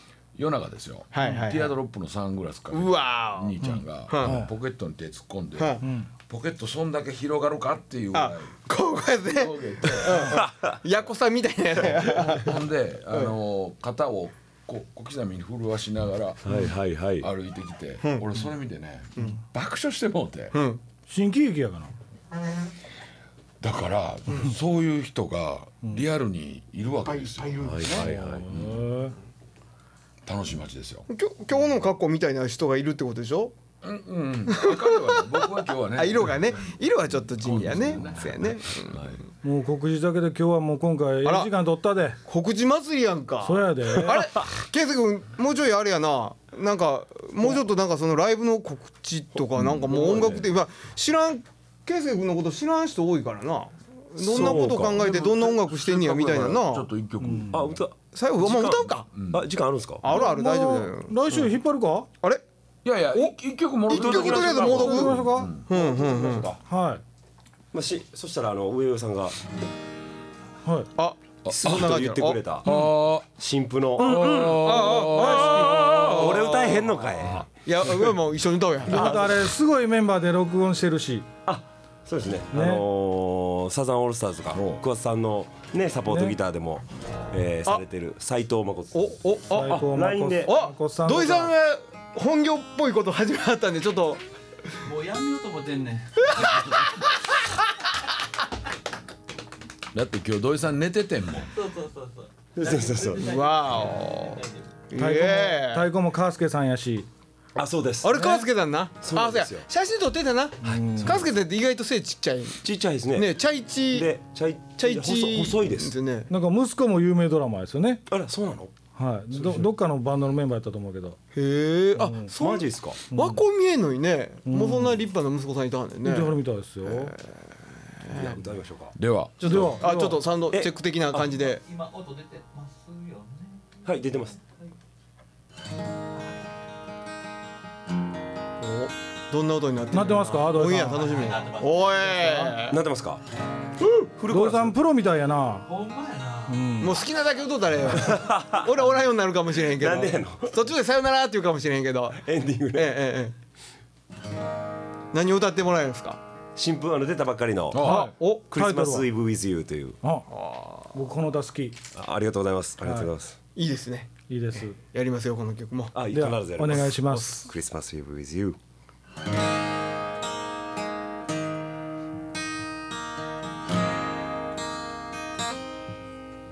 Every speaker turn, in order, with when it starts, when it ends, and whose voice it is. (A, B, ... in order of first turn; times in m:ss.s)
0:00.3-0:08.6 A
0:01.1-0:01.7 B
0:02.7-0:04.4 B
0:04.2-0:04.5 C
0:05.6-0:05.8 B
0:08.1-0:12.6 B
0:09.3-0:10.4 A
0:10.4-0:10.7 D
0:11.9-0:16.6 A
0:16.4-0:17.3 D
0:17.2-0:20.6 A
0:20.5-0:20.8 B
0:21.1-0:21.9 C
0:23.6-0:29.0 A
0:27.0-0:28.1 B
0:27.6-0:28.5 D
0:28.0-0:29.1 C
0:30.2-0:31.1 A
0:31.1-0:33.5 B
0:33.8-0:36.7 A
0:34.5-0:39.0 B
0:37.4-0:39.2 A
0:39.4-0:42.2 C
0:41.2-0:41.5 B
0:42.2-0:56.9 B
0:43.4-0:44.3 C
0:49.8-0:50.4 D
0:54.2-0:55.4 D
0:54.3-0:57.8 A
0:57.2-0:57.7 C
0:57.5-1:00.1 D
0:58.1-0:59.1 B
0:59.1-0:59.4 A
1:00.0-1:01.5 B
1:00.1-1:02.1 C
1:02.8-1:06.6 A
1:03.9-1:06.5 B
1:03.9-1:05.1 D
1:04.8-1:05.5 C
1:06.6-1:07.0 C
1:07.7-1:09.4 D
1:10.6-1:10.9 C
1:11.0-1:12.9 B
1:11.4-1:12.0 A
1:11.5-1:12.7 D
1:12.6-1:13.3 A
1:13.3-1:14.5 D
1:14.0-1:16.5 A
1:14.0-1:16.9 B
1:15.1-1:16.1 C
1:15.5-1:17.5 D
1:17.6-1:19.4 B
1:18.9-1:21.3 C
1:21.4-1:30.5 D
1:22.5-1:22.8 C
1:24.5-1:24.8 A
1:26.1-1:26.4 C
1:28.9-1:29.9 B
1:29.5-1:31.5 C
1:30.4-1:34.2 B
1:34.8-1:37.0 E
1:36.4-1:36.8 B
1:39.9-1:41.5 A
1:41.3-1:44.8 E
1:42.6-1:43.3 D
1:43.2-1:45.9 B
1:45.0-1:47.1 C
1:47.6-1:48.4 D
1:48.0-1:52.6 B
1:49.0-1:49.6 D
1:50.6-1:51.2 C
1:50.8-1:51.3 D
1:52.6-1:53.4 D
1:53.1-1:54.1 B
1:53.9-1:55.9 D
1:54.8-1:56.3 B
1:56.3-1:58.0 C
1:58.1-1:58.7 D
1:58.9-2:01.2 C
1:59.3-1:59.6 D
2:01.3-2:08.4 B
2:02.0-2:02.3 C
2:02.4-2:03.0 D
2:03.1-2:03.4 C
2:04.5-2:05.0 C
2:06.0-2:07.1 C
2:08.1-2:09.0 D
2:09.0-2:09.8 A
2:09.4-2:11.6 B
2:09.4-2:10.2 C
2:10.5-2:11.3 D
2:11.4-2:14.7 E
2:13.8-2:14.4 D
2:18.6-2:22.8 B
2:19.9-2:21.2 C
2:21.1-2:22.6 E
2:22.7-2:23.2 D
2:23.8-2:24.8 D
2:24.3-2:25.6 C
2:25.6-2:26.7 E
2:26.5-2:27.0 C
2:26.8-2:33.4 B
2:27.9-2:28.7 D
2:29.7-2:30.6 D
2:32.2-2:33.0 D
2:35.1-2:36.2 B
2:36.6-2:37.8 D
2:37.7-2:38.1 A
2:37.8-2:39.1 C
2:37.8-2:38.5 B
2:38.5-2:40.0 D
2:40.0-2:40.3 C
2:40.3-2:41.0 B
2:40.9-2:41.8 C
2:41.9-2:43.4 D
2:42.8-2:43.1 C
2:43.6-2:45.9 B
2:44.3-2:44.7 C
2:45.9-2:48.6 D
2:46.1-2:47.5 C
2:47.0-2:47.5 B